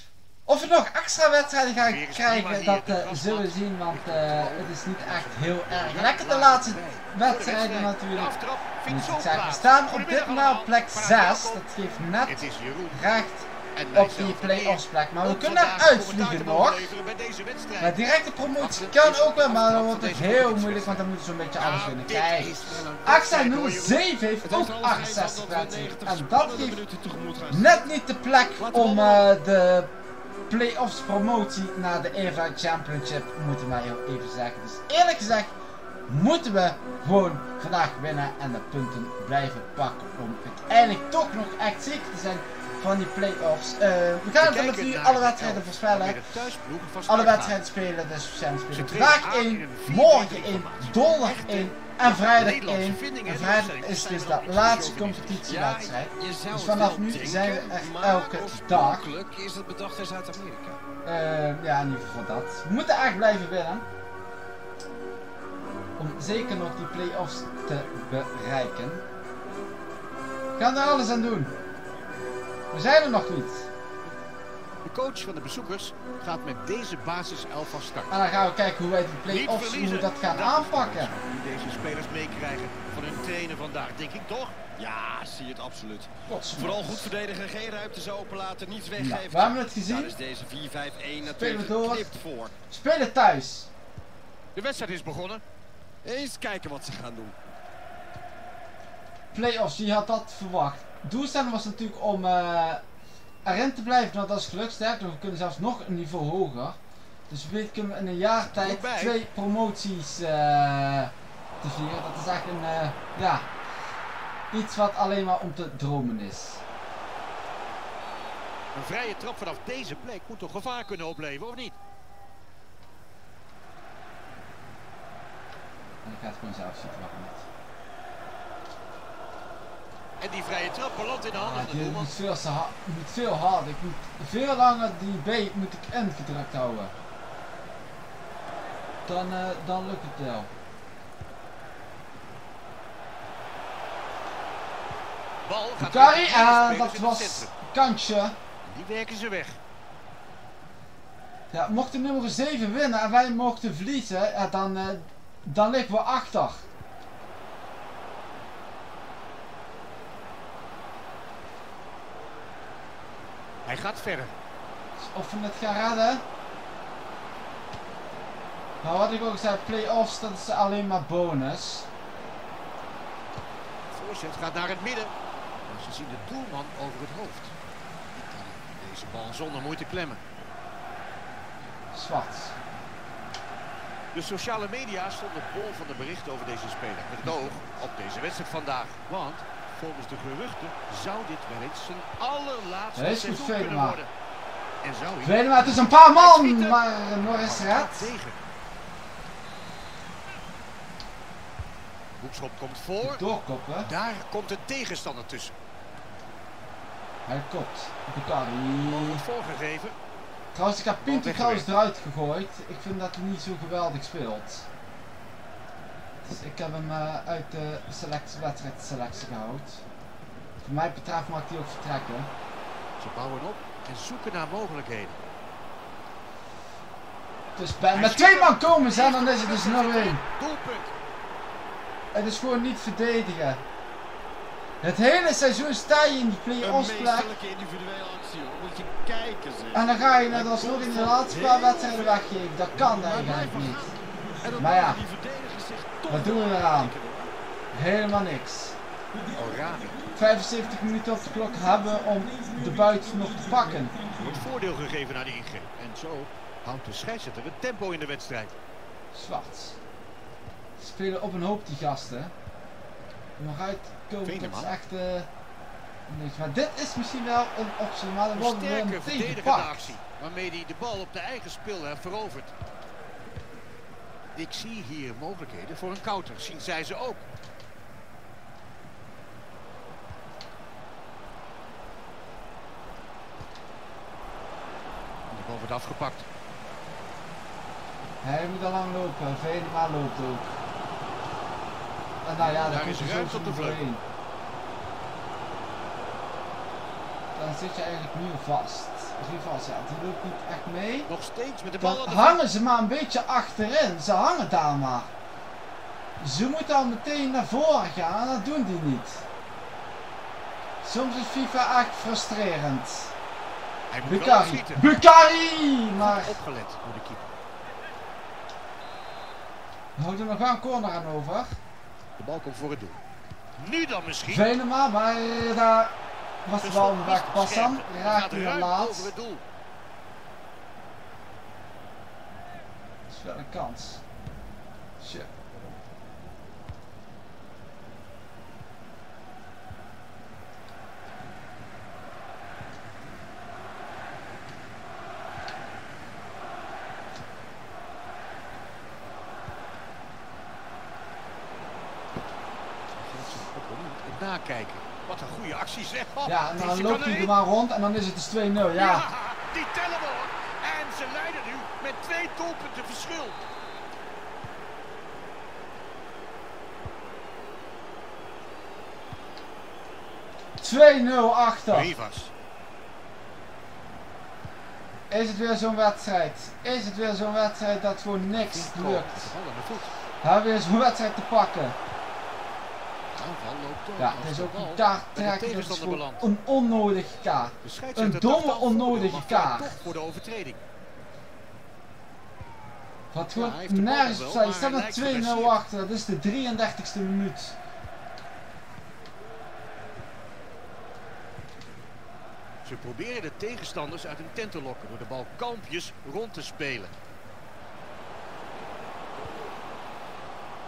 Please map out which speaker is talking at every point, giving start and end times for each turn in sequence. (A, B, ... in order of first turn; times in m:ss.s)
0:00.5-0:08.4 A
0:01.8-0:11.7 B
0:08.9-0:16.9 A
0:12.2-0:13.0 B
0:13.8-0:18.0 B
0:17.8-0:26.8 A
0:18.6-0:24.0 B
0:24.4-0:27.8 C
0:27.5-0:29.9 A
0:28.6-0:29.3 C
0:30.5-0:35.5 A
0:36.1-0:46.2 A
0:44.4-0:47.6 B
0:47.1-0:59.1 A
0:48.7-0:55.4 B
0:55.4-1:00.8 C
1:01.0-1:03.9 A
1:06.0-1:09.0 A
1:10.6-1:11.5 A
1:12.7-1:13.7 A
1:14.8-1:18.2 B
1:18.1-1:21.1 A
1:19.3-1:24.6 B
1:24.8-1:32.5 C
1:26.2-1:27.1 A
1:29.0-1:30.1 A
1:31.2-1:32.1 A
1:32.7-1:33.7 A
1:34.6-1:35.4 B
1:36.0-1:37.3 C
1:39.3-1:42.8 A
1:43.4-1:46.8 A
1:47.3-1:53.5 A
1:48.4-1:49.2 B
1:54.5-1:56.6 A
1:58.7-2:01.8 B
2:06.0-2:07.5 A
2:10.2-2:12.1 B
2:11.3-2:16.9 A
2:19.1-2:20.5 A
2:25.4-2:27.5 B
2:25.8-2:28.4 A
2:28.7-2:29.6 B
2:31.5-2:36.7 A
2:43.6-2:44.3 B
2:45.0-2:46.2 A
2:48.8-2:51.9 A
2:53.9-2:55.1 B
2:55.7-2:57.5 B
2:58.1-3:00.2 B
3:01.9-3:02.6 A
3:04.1-3:14.1 B
3:07.2-3:07.6 A
3:12.9-3:14.0 A
3:14.8-3:18.4 B
3:15.2-3:18.1 A
3:22.2-3:23.2 B
3:23.0-3:23.9 A
3:23.8-3:25.5 B
3:27.2-3:29.2 A
3:28.8-3:30.0 B
3:30.5-3:34.7 A
3:31.0-3:31.7 B
3:36.2-3:39.8 A
3:40.6-3:42.3 A
3:43.0-3:45.2 B
3:47.6-3:50.2 A
3:47.9-3:50.9 B
3:52.1-3:53.6 A
3:54.8-3:57.3 A
3:56.6-4:02.2 C
3:59.7-4:03.9 A
4:02.9-4:07.3 C
4:04.6-4:05.0 A
4:06.1-4:06.9 A
4:07.7-4:08.8 A
4:09.3-4:10.1 B
4:10.1-4:14.0 A
4:14.1-4:18.5 B
4:19.1-4:19.8 A
4:20.8-4:22.3 A
4:23.4-4:25.3 A
4:24.2-4:24.7 B
4:26.1-4:30.0 A
4:28.4-4:32.5 B
4:34.4-4:37.2 B
4:45.3-4:46.2 B
4:48.2-4:50.6 A
4:52.2-4:54.0 A
4:52.4-4:53.8 B
4:57.4-5:01.1 A
5:01.1-5:02.4 B
5:01.8-5:05.1 A
5:06.2-5:09.2 A
5:10.8-5:13.1 A
5:13.9-5:15.0 B
5:14.0-5:16.4 A
5:16.0-5:17.3 B
5:20.0-5:21.6 A
5:22.2-5:23.0 B
5:23.6-5:24.5 B
5:24.3-5:29.1 A
5:26.6-5:29.4 B
5:33.1-5:34.0 A
5:35.0-5:35.3 A
5:52.9-5:57.4 B
5:56.2-5:59.1 A
5:58.6-6:03.4 B
6:10.6-6:11.9 A
6:11.7-6:12.3 B
6:15.1-6:19.3 A
6:18.2-6:19.9 B
6:20.2-6:21.8 A
6:23.1-6:26.2 B
6:24.0-6:29.8 A
6:27.6-6:30.6 B
6:33.1-6:37.6 A
6:33.4-6:35.6 B
6:42.6-6:46.9 B